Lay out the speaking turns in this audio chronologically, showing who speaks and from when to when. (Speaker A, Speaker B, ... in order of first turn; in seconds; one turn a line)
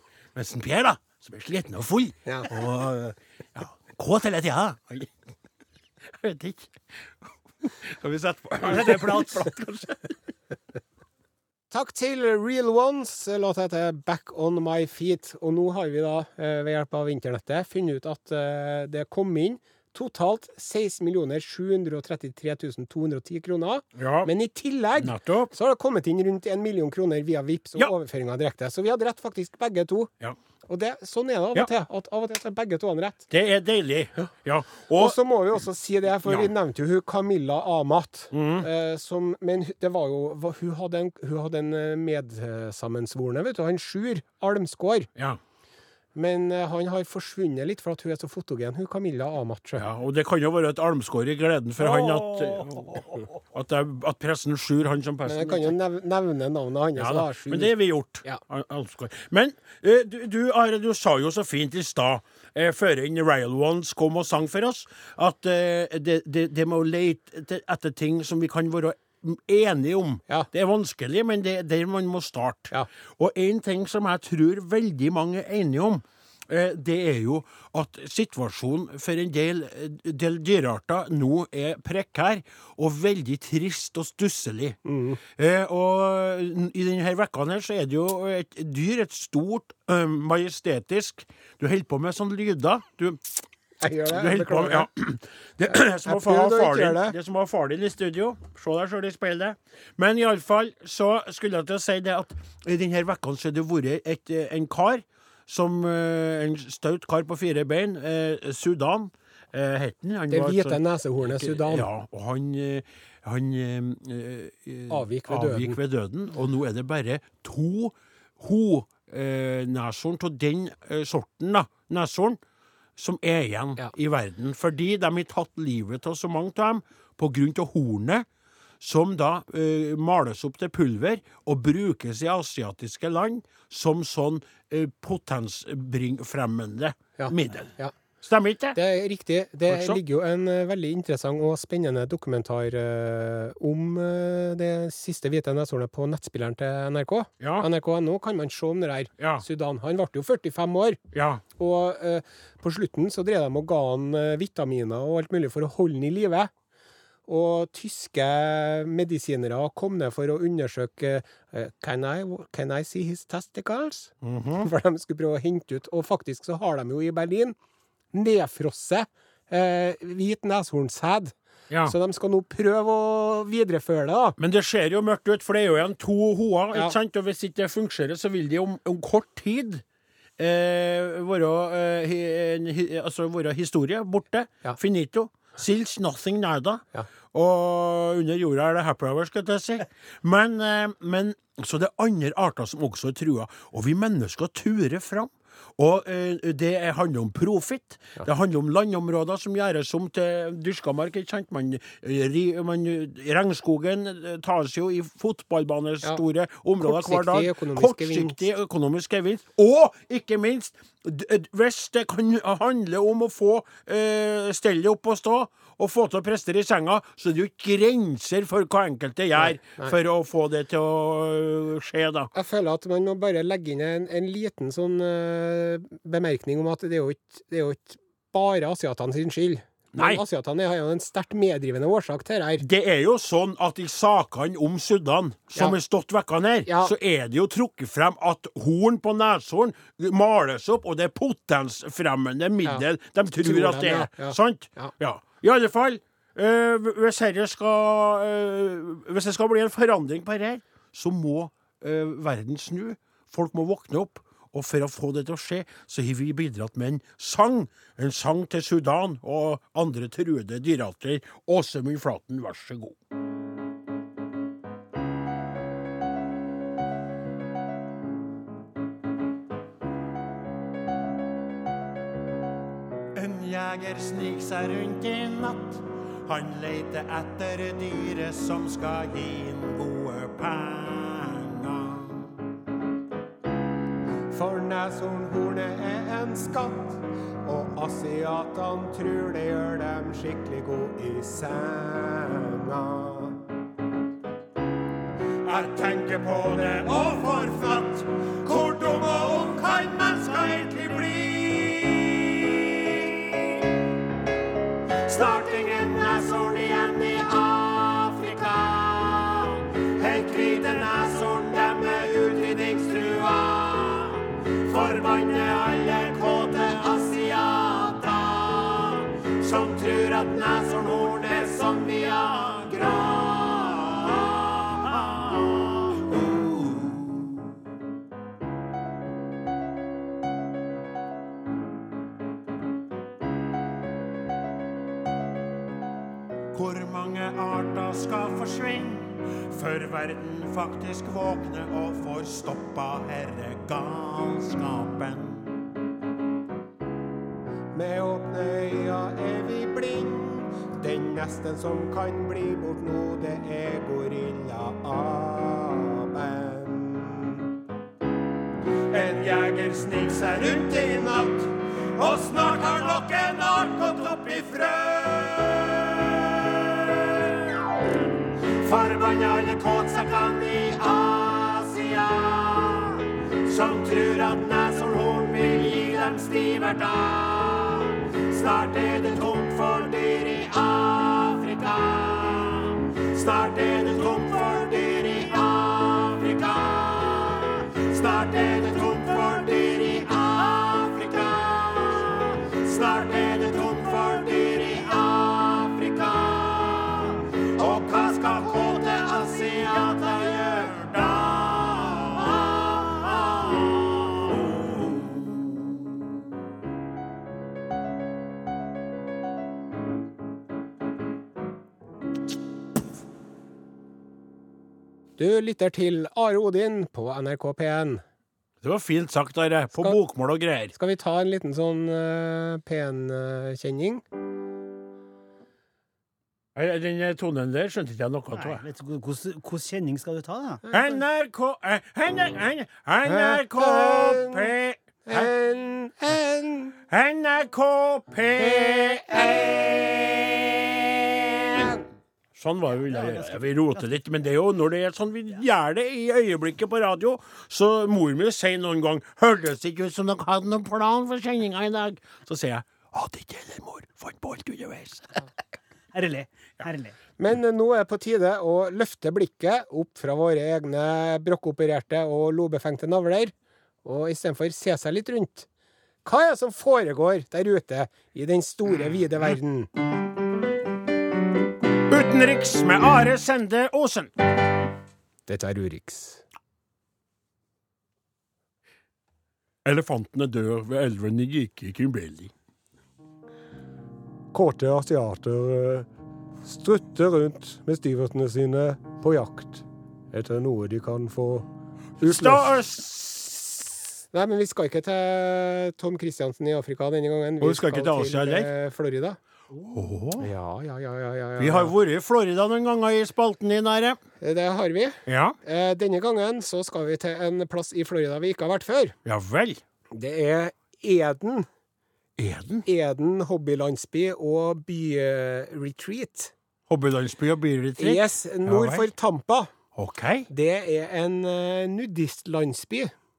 Speaker A: 0.3-5.1
Speaker A: 6.0-10.2
Speaker B: 8.7-9.4
Speaker C: 11.7-30.1
Speaker A: 23.9-24.3
Speaker A: 25.0-25.5
Speaker C: 30.7-33.3
Speaker A: 33.3-35.2
Speaker C: 34.9-45.1
Speaker A: 36.2-36.5
Speaker A: 38.3-38.7
Speaker C: 46.1-49.9
Speaker A: 49.8-55.8
Speaker B: 51.8-53.3
Speaker C: 55.2-58.4
Speaker A: 57.0-93.4
Speaker C: 84.8-85.2
Speaker C: 93.8-94.9
Speaker A: 94.1-110.8
Speaker C: 95.7-97.2
Speaker C: 110.3-111.9
Speaker A: 111.3-122.4
Speaker C: 114.9-115.8
Speaker A: 123.0-128.3
Speaker A: 128.8-138.8
Speaker C: 137.2-137.9
Speaker C: 138.8-151.0
Speaker A: 139.7-140.0
Speaker A: 147.4-147.7
Speaker A: 149.2-149.4
Speaker A: 151.1-151.4
Speaker C: 151.6-156.5
Speaker C: 157.3-167.6
Speaker A: 164.2-164.7
Speaker C: 168.1-174.4
Speaker A: 171.7-172.0
Speaker A: 174.4-179.8
Speaker A: 180.4-222.3
Speaker C: 206.8-208.4
Speaker C: 219.4-219.9
Speaker C: 222.3-232.6
Speaker A: 229.9-230.2
Speaker A: 232.6-263.0
Speaker C: 236.7-236.9
Speaker C: 243.4-244.9
Speaker A: 273.1-282.4
Speaker C: 284.3-293.4
Speaker A: 295.5-298.0
Speaker C: 295.5-301.7
Speaker A: 300.6-303.2
Speaker C: 305.1-306.8
Speaker A: 306.2-309.6
Speaker C: 310.0-313.1
Speaker A: 310.2-311.9
Speaker A: 312.4-327.5
Speaker A: 336.5-345.6
Speaker C: 347.7-357.5
Speaker C: 358.9-361.5
Speaker A: 362.0-367.4
Speaker C: 362.3-363.0
Speaker A: 368.5-405.8
Speaker C: 415.2-418.0
Speaker A: 418.6-420.7
Speaker C: 420.7-424.0
Speaker A: 426.6-428.6
Speaker B: 428.4-430.6
Speaker A: 430.7-435.3
Speaker C: 433.1-434.5
Speaker C: 435.1-436.8
Speaker A: 436.9-441.8
Speaker C: 438.4-439.5
Speaker A: 442.3-455.3
Speaker B: 442.9-443.8
Speaker B: 455.9-457.0
Speaker C: 457.2-463.3
Speaker C: 463.9-465.5
Speaker C: 466.1-469.7
Speaker A: 471.9-474.1
Speaker C: 475.3-476.2
Speaker A: 479.6-482.3
Speaker C: 484.3-485.9
Speaker C: 486.4-491.5
Speaker C: 492.0-492.5
Speaker A: 492.0-493.7
Speaker C: 494.1-499.2
Speaker A: 497.4-498.5
Speaker A: 499.6-500.3
Speaker C: 500.2-501.7
Speaker A: 501.4-504.0
Speaker C: 504.2-509.0
Speaker A: 505.1-505.4
Speaker A: 509.1-509.6
Speaker C: 509.9-511.5
Speaker A: 512.2-512.7
Speaker C: 512.6-516.3
Speaker A: 516.7-518.9
Speaker C: 517.8-519.5
Speaker A: 519.8-520.3
Speaker C: 520.3-522.9